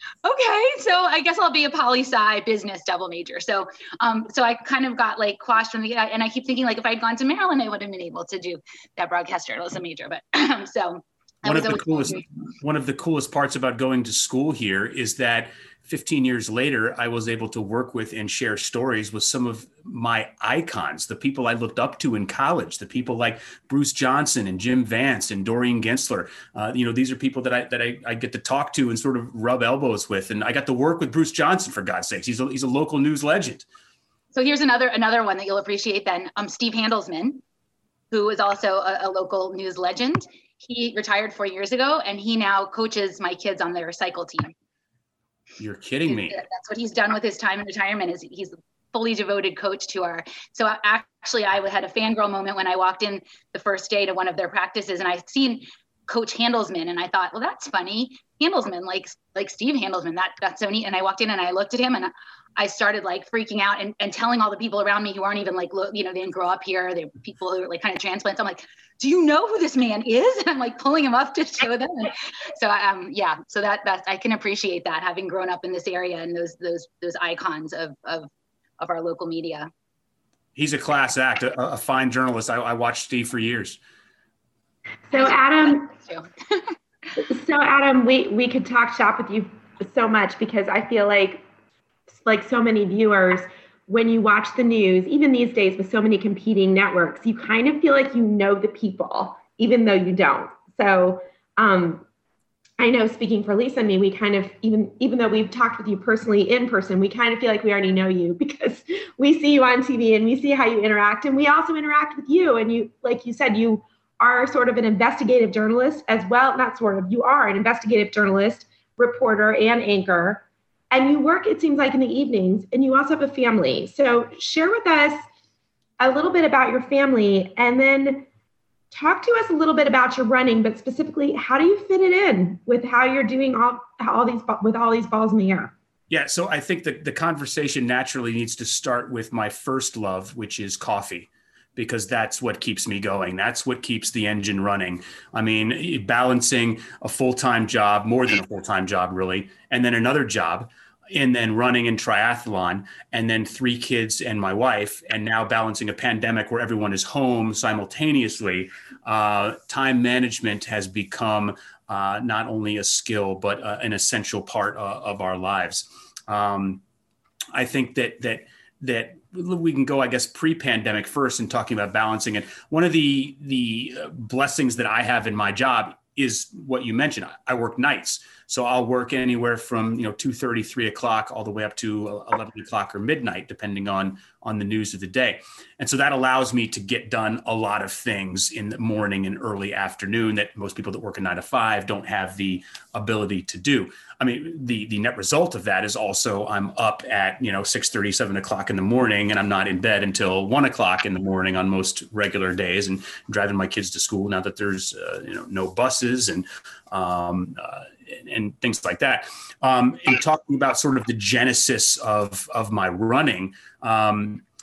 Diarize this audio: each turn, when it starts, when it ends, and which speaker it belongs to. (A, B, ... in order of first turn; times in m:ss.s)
0:00.2-0:12.2 A
0:11.4-0:33.7 B
0:34.3-0:37.4 A
0:38.1-0:44.5 A
0:45.6-0:46.4 B
0:46.1-1:19.7 A
1:20.6-1:23.8 B
1:25.1-1:25.9 C
1:25.1-1:26.7 A
1:27.2-1:31.4 C
1:32.1-1:42.0 C
1:42.8-2:05.2 C
2:06.0-2:08.3 C
2:08.9-2:15.7 C
2:16.1-2:46.8 B
2:47.5-3:34.4 B